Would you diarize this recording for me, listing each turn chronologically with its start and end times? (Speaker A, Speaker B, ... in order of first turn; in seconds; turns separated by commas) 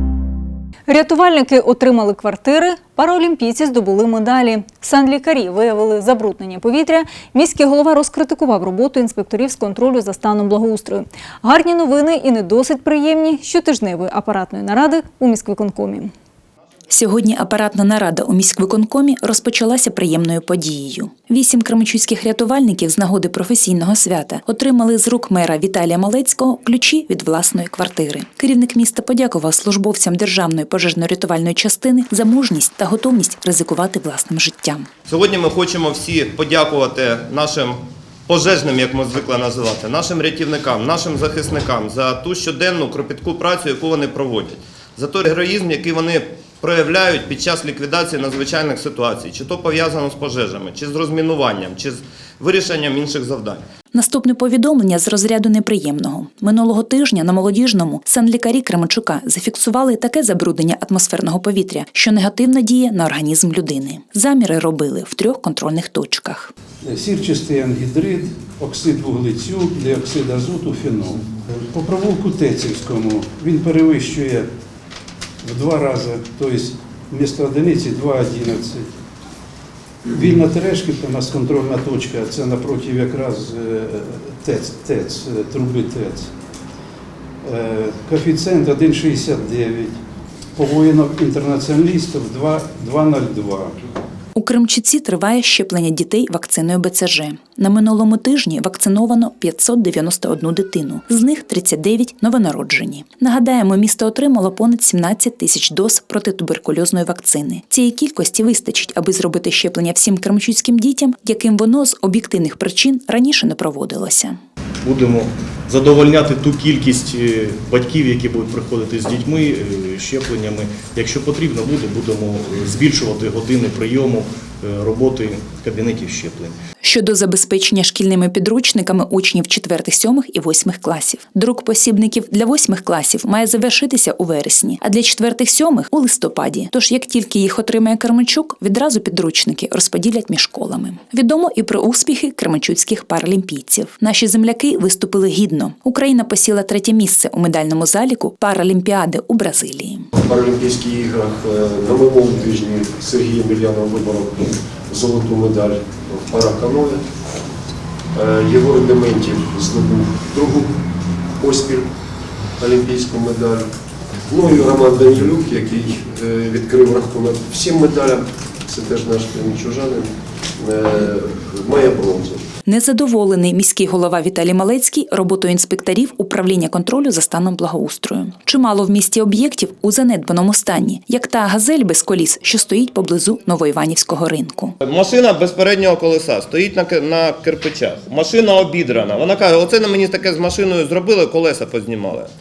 Speaker A: 0.9-16.1, Speaker B: 16.9-34.9, Speaker C: 35.1-37.0, Speaker C: 38.3-39.5, Speaker C: 40.1-41.8, Speaker C: 42.5-43.1, Speaker C: 43.7-44.2, Speaker C: 45.0-46.0, Speaker C: 46.6-46.9, Speaker B: 53.9-66.5, Speaker D: 66.8-74.5, Speaker D: 75.4-78.9, Speaker D: 80.1-86.3, Speaker D: 87.4-90.0, Speaker D: 90.6-93.7, Speaker B: 94.3-114.4, Speaker E: 114.8-126.5, Speaker B: 126.8-150.1, Speaker F: 150.2-157.0, Speaker F: 158.1-160.7, Speaker F: 161.4-161.9, Speaker F: 162.6-163.7, Speaker F: 164.3-172.4, Speaker B: 172.7-184.7, Speaker C: 184.8-192.2